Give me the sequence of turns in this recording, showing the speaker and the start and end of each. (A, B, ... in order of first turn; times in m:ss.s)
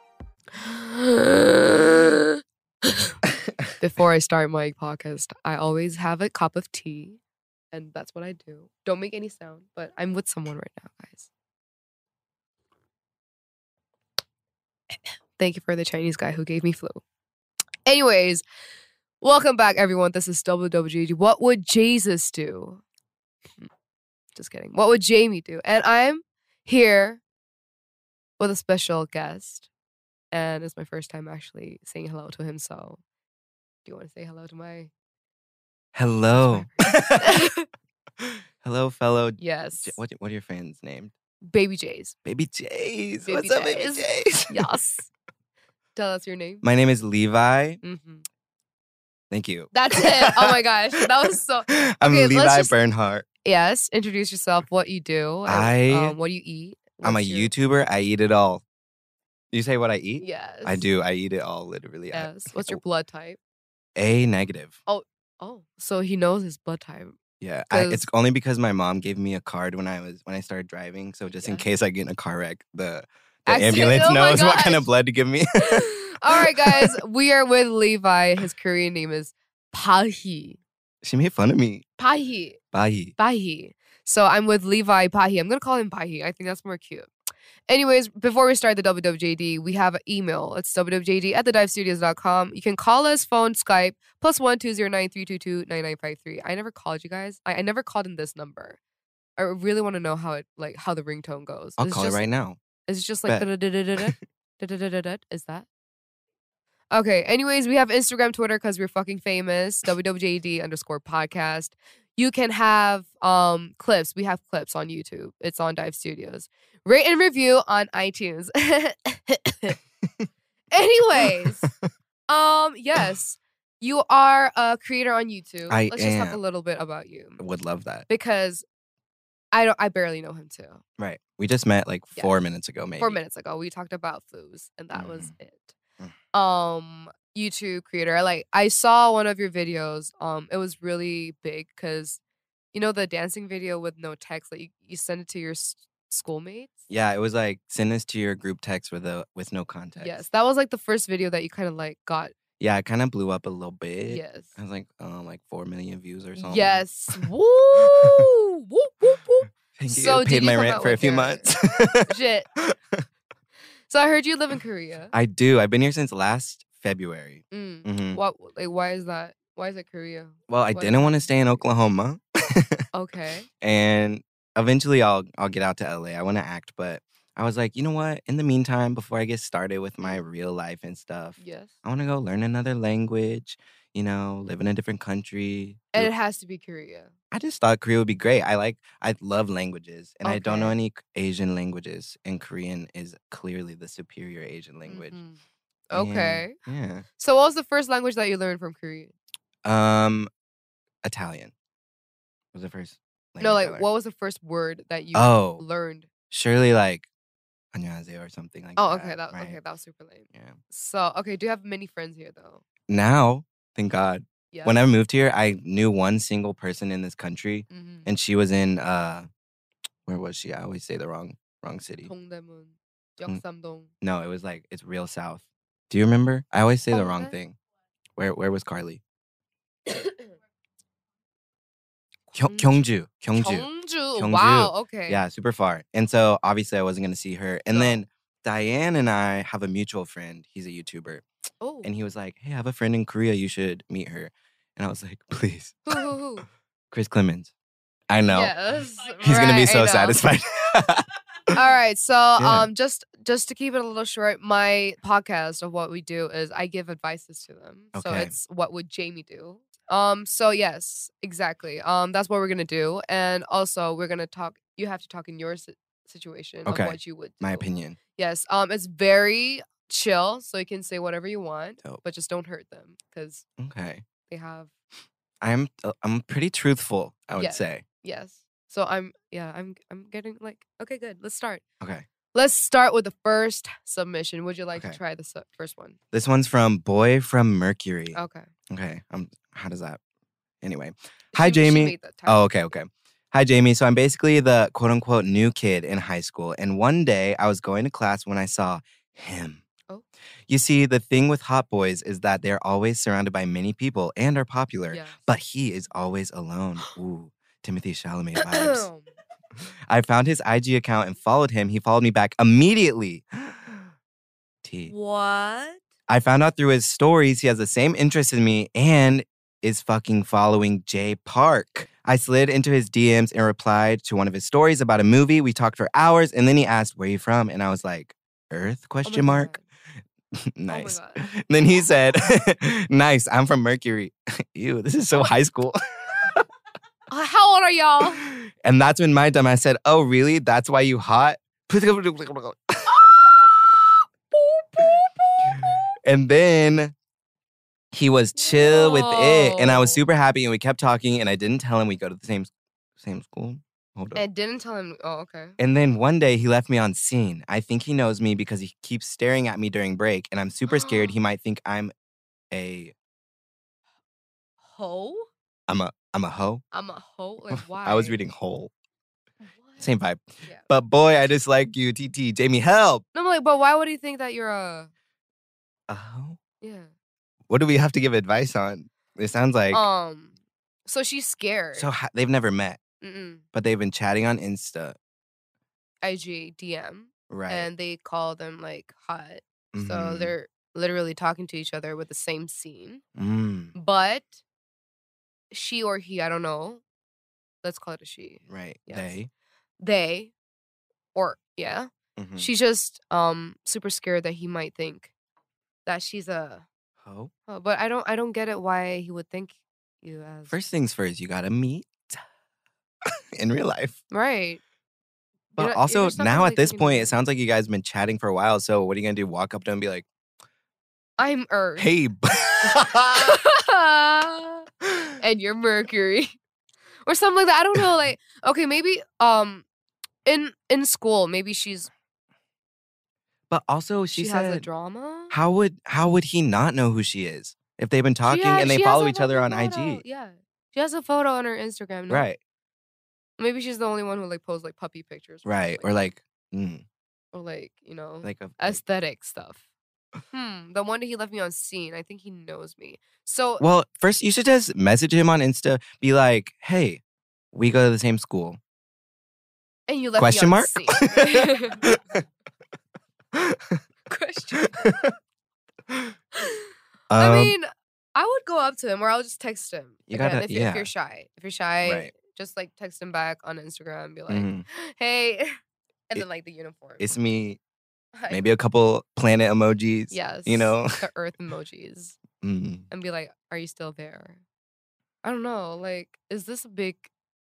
0:00.5-0:03.2 A
0:03.8-0:07.2 A
0:07.7-0:11.3 A
0:15.4-0:17.0 A
0:17.8-0:18.4 A
0:19.2-0:22.8 A
0:24.3-0:27.2 A
0:28.4-0:29.7 A
0:30.3-0:33.0 A
0:33.8-0:34.9 A
0:35.9-0:37.4 B
0:36.4-0:36.7 A
0:37.2-0:37.7 A
0:38.2-0:41.1 B
0:39.4-0:40.0 A
0:41.4-0:42.1 A
0:42.2-0:44.6 B
0:43.2-0:45.1 A
0:45.9-0:46.6 A
0:46.6-0:47.8 B
0:47.8-0:48.2 A
0:49.3-0:50.5 B
0:49.7-0:52.7 A
0:51.7-0:53.2 B
0:53.4-0:57.5 A
0:55.4-0:56.2 B
0:57.0-0:58.6 B
0:59.5-1:02.8 B
1:00.2-1:00.8 A
1:02.1-1:03.4 A
1:04.0-1:04.8 B
1:04.8-1:07.2 A
1:07.4-1:16.9 B
1:07.7-1:08.1 A
1:11.3-1:11.6 A
1:13.5-1:14.9 A
1:15.6-1:20.6 A
1:21.0-1:21.9 B
1:22.0-1:22.6 A
1:22.7-1:23.1 B
1:23.2-1:27.1 A
1:27.7-1:38.8 A
1:39.4-1:42.2 A
1:41.8-1:42.6 B
1:42.9-1:45.7 A
1:46.9-1:59.8 A
2:00.7-2:01.7 A
2:02.3-2:07.4 A
2:05.7-2:06.4 B
2:07.4-2:08.1 B
2:08.1-2:08.6 A
2:09.5-2:10.8 A
2:11.0-2:13.2 B
2:13.0-2:15.7 A
2:14.9-2:15.3 B
2:16.3-2:22.2 A
2:22.7-2:26.8 A
2:26.9-2:30.2 B
2:30.0-2:32.3 A
2:32.6-2:37.2 B
2:34.0-2:34.5 A
2:36.4-2:41.5 A
2:37.8-2:38.2 B
2:39.7-2:43.0 B
2:42.0-2:42.5 A
2:43.9-2:45.1 A
2:45.1-2:48.2 B
2:47.5-2:51.6 A
2:50.5-2:52.8 B
2:52.9-2:53.5 A
2:53.6-3:06.1 B
3:01.4-3:01.7 A
3:05.9-3:07.1 A
3:07.3-3:15.2 B
3:10.2-3:10.8 A
3:14.8-3:16.6 A
3:15.9-3:17.0 B
3:17.2-3:19.1 A
3:19.6-3:20.3 B
3:21.0-3:21.5 B
3:22.5-3:23.8 B
3:23.4-3:26.1 A
3:25.1-3:25.6 B
3:26.3-3:27.1 B
3:27.7-3:29.6 B
3:28.8-3:32.6 A
3:30.3-3:30.6 B
3:32.9-3:39.3 B
3:34.5-3:34.8 A
3:37.7-3:38.1 A
3:40.1-3:42.1 B
3:42.0-3:43.9 A
3:44.0-3:47.6 B
3:46.9-3:47.3 A
3:48.2-3:49.0 B
3:49.9-3:50.3 A
3:52.3-3:55.2 A
3:52.4-4:01.2 B
3:57.7-3:58.0 A
4:01.6-4:01.9 A
4:01.8-4:06.0 B
4:05.9-4:06.4 A
4:06.9-4:07.5 B
4:08.1-4:08.5 B
4:08.3-4:10.2 A
4:09.2-4:11.6 B
4:11.5-4:33.4 A
4:12.4-4:12.7 B
4:17.9-4:18.3 B
4:26.6-4:28.0 B
4:33.6-4:34.0 B
4:34.3-4:34.7 A
4:35.4-4:37.8 B
4:37.4-4:41.6 A
4:41.8-4:42.0 B
4:42.3-4:46.0 A
4:46.1-4:48.2 B
4:48.1-4:48.5 A
4:48.7-4:50.0 B
4:50.6-4:59.6 B
4:51.3-4:52.5 A
5:00.5-5:08.9 B
5:04.9-5:05.2 A
5:08.4-5:09.1 A
5:09.9-5:13.9 B
5:14.6-5:14.9 B
5:14.9-5:15.8 A
5:16.1-5:29.6 B
5:29.0-5:29.6 A
5:30.3-5:36.4 B
5:30.7-5:31.2 A
5:37.1-5:38.2 A
5:38.2-5:43.1 B
5:42.9-5:43.2 A
5:44.3-5:45.1 A
5:45.5-5:46.9 B
5:47.9-5:54.2 B
5:48.4-5:50.0 A
5:54.1-5:55.6 A
5:55.6-6:01.9 B
6:00.7-6:01.1 A
6:02.5-6:02.9 B
6:04.6-6:05.3 A
6:05.7-6:06.6 B
6:06.7-6:08.2 A
6:07.5-6:08.7 B
6:09.4-6:09.9 A
6:09.8-6:13.0 B
6:13.1-6:14.9 A
6:15.9-6:16.4 B
6:16.6-6:16.9 A
6:17.5-6:19.8 B
6:19.7-6:20.3 A
6:20.8-6:21.9 A
6:21.7-6:22.8 B
6:23.0-6:23.4 A
6:23.5-6:25.0 B
6:26.0-6:33.0 A
6:27.3-6:27.7 B
6:29.7-6:30.3 B
6:33.2-6:33.7 B
6:33.7-6:34.4 A
6:35.5-6:36.8 A
6:37.6-6:39.2 A
6:38.5-6:39.3 B
6:39.8-6:40.3 A
6:41.1-6:45.1 A
6:42.2-6:42.5 B
6:45.8-6:46.6 A
6:47.0-6:47.3 B
6:47.5-6:50.6 A
6:50.5-6:52.2 B
6:53.3-6:54.0 B
6:54.1-6:54.6 A
6:55.5-7:00.0 B
6:55.6-6:57.2 A
7:01.2-7:01.9 A
7:01.8-7:03.4 B
7:02.7-7:04.7 A
7:04.8-7:05.1 B
7:05.2-7:06.4 A
7:07.0-7:09.6 A
7:10.2-7:11.9 A
7:13.5-7:14.7 B
7:14.1-7:15.3 A
7:15.3-7:20.0 B
7:18.2-7:22.2 A
7:22.1-7:22.4 B
7:23.4-7:26.0 A
7:25.4-7:26.8 B
7:27.3-7:29.6 A
7:28.2-7:28.8 B
7:30.3-7:33.6 A
7:33.6-7:37.0 B
7:37.5-7:38.6 B
7:39.9-7:41.8 A
7:40.2-7:42.2 B
7:43.3-7:43.8 B
7:44.1-7:45.0 A
7:44.6-7:45.1 B
7:45.9-7:46.1 B
7:46.3-7:55.6 A
7:47.1-7:47.5 B
7:50.1-7:50.9 B
7:51.8-7:52.1 B
7:54.3-7:54.6 B
7:56.1-7:57.0 A
7:57.0-7:57.6 B
7:58.1-7:58.4 A
7:58.3-8:01.0 B
8:00.1-8:02.2 A
8:02.4-8:02.9 B
8:02.9-8:04.4 A
8:05.2-8:07.1 A